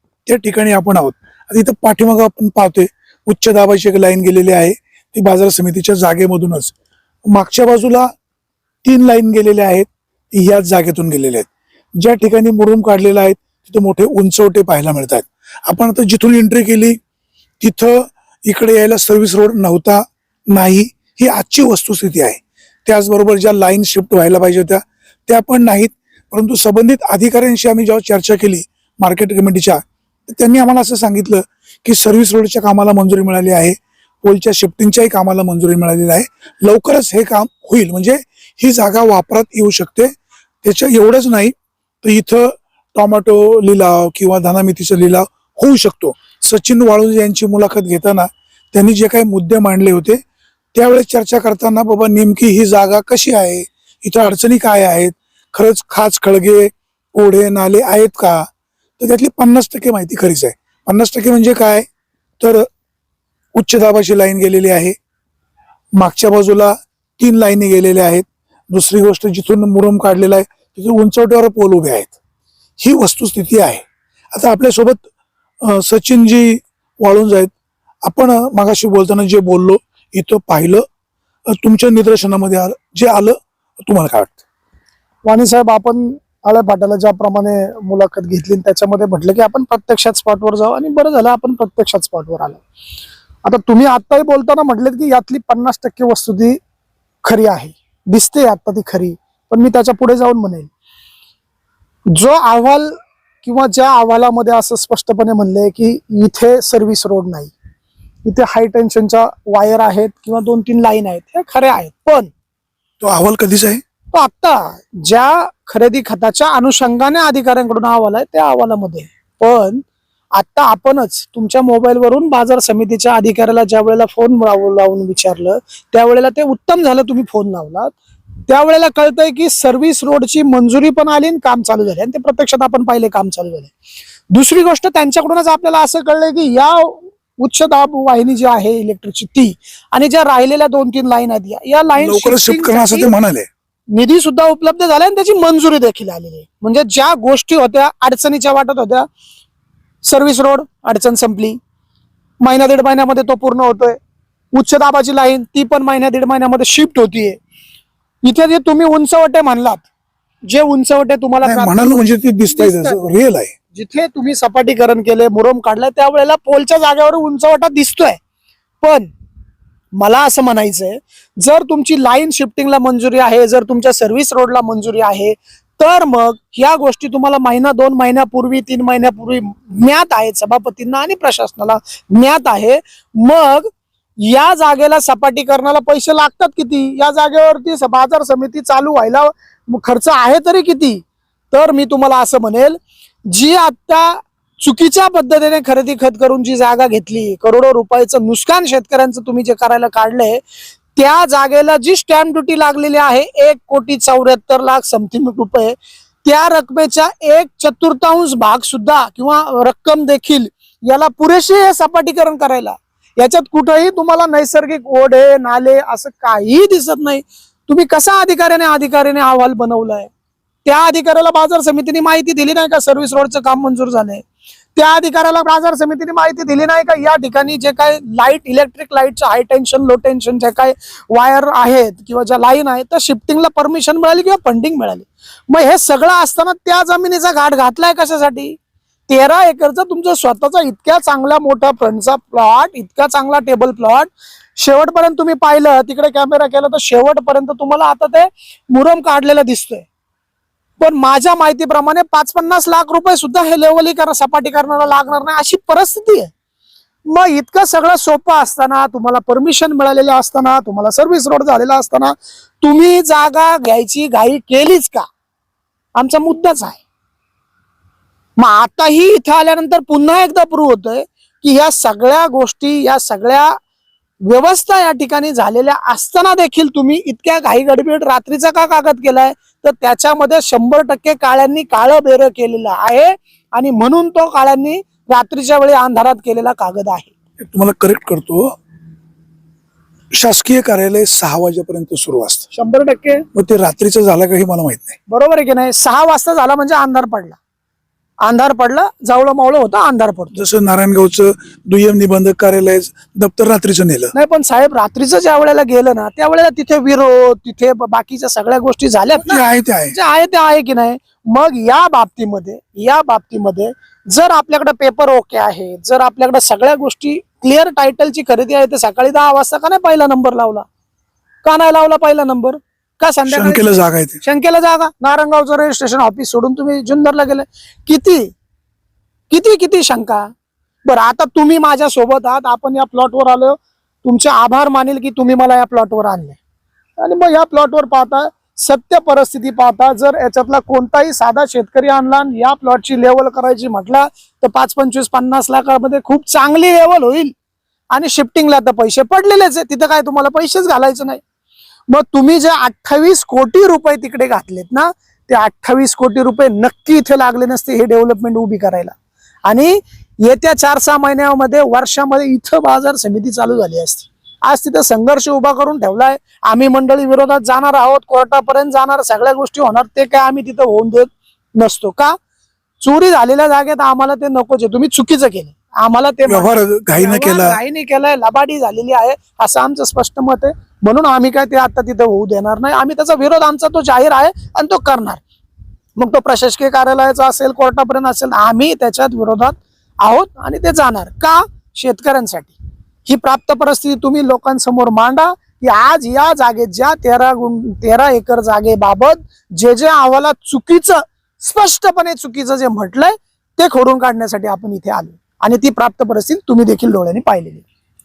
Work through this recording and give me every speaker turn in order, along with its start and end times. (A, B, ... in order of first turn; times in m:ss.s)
0:00.3-0:06.7 A
0:07.3-0:08.1 A
0:08.8-0:17.0 A
0:17.6-0:40.1 A
0:40.6-0:50.2 A
0:50.7-0:58.5 A
0:59.0-1:01.9 A
1:02.4-1:02.7 A
1:03.6-1:05.0 A
1:06.0-1:12.2 A
1:12.8-1:13.8 A
1:14.3-1:15.1 A
1:15.6-1:17.5 A
1:18.1-1:20.8 A
1:21.5-1:24.4 A
1:25.2-1:32.6 B
1:33.4-1:36.6 B
1:37.2-1:40.7 B
1:42.1-1:47.5 B
1:48.2-1:52.3 B
1:53.0-1:53.8 A
1:54.1-2:08.0 B
2:08.5-2:13.7 B
2:14.3-2:23.1 B
2:22.0-2:23.5 A
2:23.9-2:29.1 B
2:30.0-2:31.6 B
2:32.4-2:34.0 B
2:34.5-2:37.4 B
2:38.2-2:39.9 B
2:40.4-2:43.1 B
2:41.4-2:43.5 A
2:43.7-2:48.2 B
2:48.8-2:49.1 B
2:50.0-3:03.7 B
3:04.2-3:20.4 B
3:21.0-3:40.1 B
3:40.6-3:44.2 B
3:44.8-3:58.6 B
3:59.1-4:09.9 B
4:10.8-4:16.3 B
4:17.1-4:25.1 B
4:26.0-4:26.8 B
4:28.4-4:33.6 B
4:34.2-4:47.1 B
4:47.4-4:48.5 A
4:50.1-4:52.5 A
4:52.5-4:53.2 B
4:53.3-4:55.0 A
4:55.1-4:57.4 B
4:58.2-5:00.4 B
5:00.3-5:04.1 A
5:04.1-5:20.7 B
5:09.2-5:10.0 A
5:21.4-5:28.3 B
5:23.3-5:24.2 A
5:29.3-5:30.3 B
5:30.8-5:36.4 B
5:37.0-5:47.3 B
5:47.9-5:51.2 B
5:51.9-5:58.9 B
5:59.4-6:12.2 B
6:12.8-6:25.2 B
6:16.3-6:17.6 A
6:26.0-6:47.6 B